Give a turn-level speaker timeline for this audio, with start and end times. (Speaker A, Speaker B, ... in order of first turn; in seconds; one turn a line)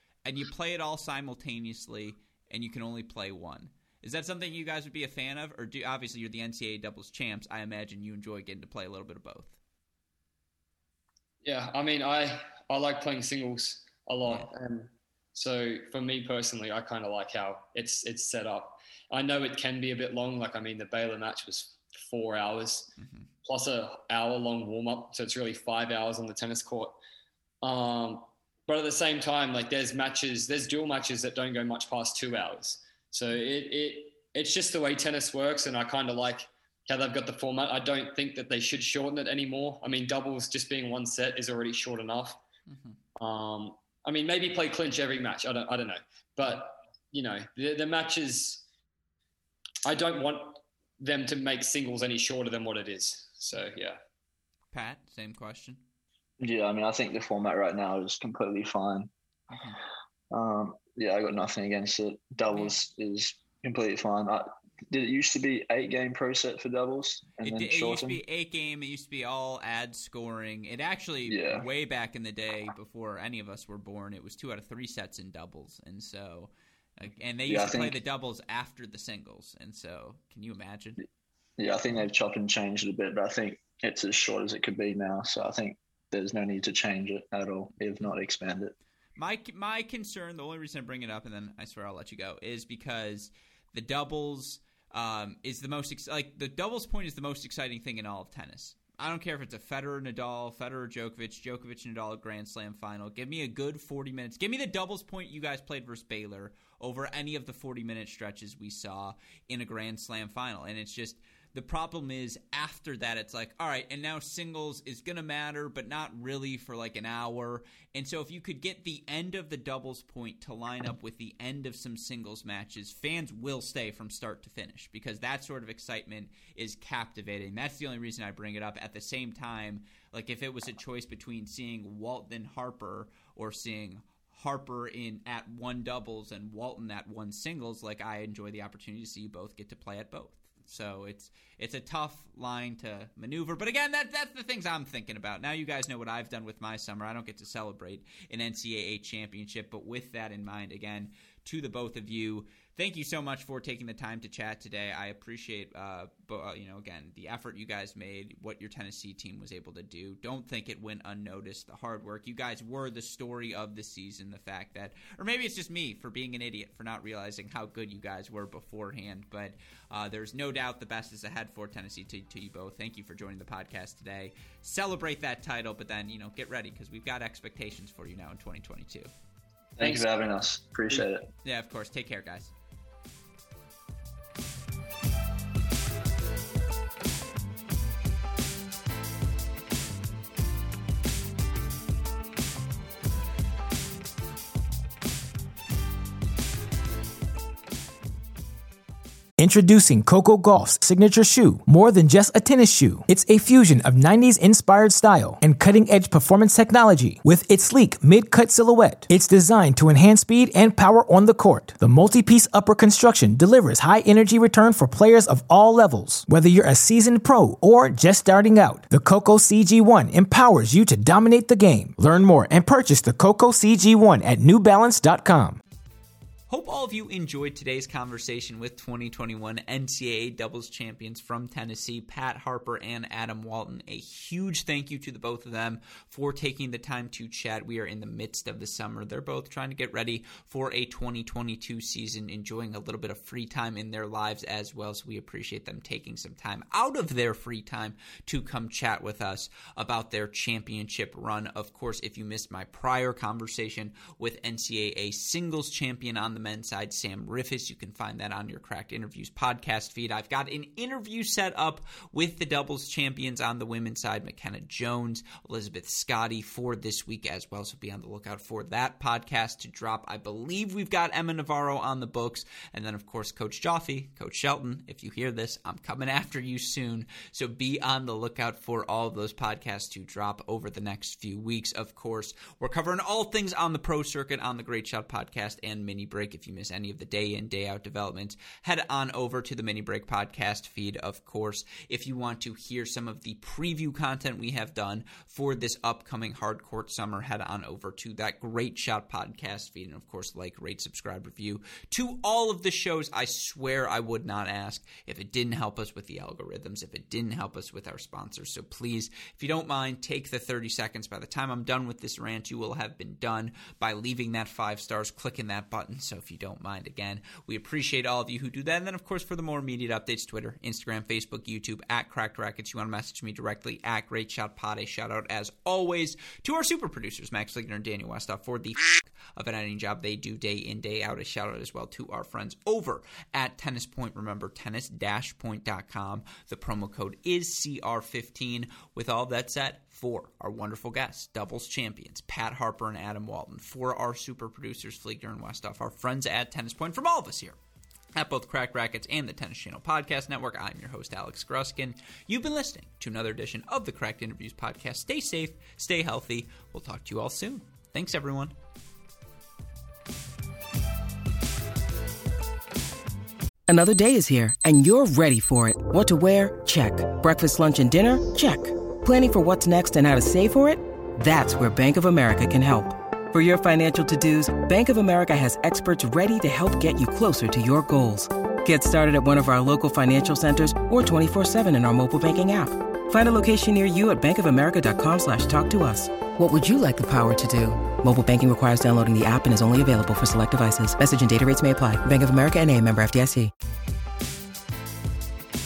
Speaker A: 0.2-9.6
Speaker B: 11.4-22.9
Speaker A: 23.0-23.3
Speaker B: 23.4-27.0
Speaker B: 27.6-42.4
Speaker A: 42.7-43.0
Speaker B: 43.2-48.6
Speaker B: 49.8-54.0
Speaker A: 54.7-55.8
Speaker C: 56.4-59.1
Speaker A: 59.5-59.8
Speaker C: 60.3-68.2
Speaker A: 62.5-62.8
Speaker A: 67.4-81.0
Speaker C: 71.2-71.7
Speaker C: 77.5-78.0
Speaker C: 81.6-88.7
Speaker A: 89.2-179.1
Speaker C: 179.8-181.3
Speaker B: 179.8-180.1
Speaker A: 181.4-182.5
Speaker D: 199.4-225.6
Speaker A: 226.5-347.6
Speaker A: 348.1-358.5
Speaker E: 363.7-393.5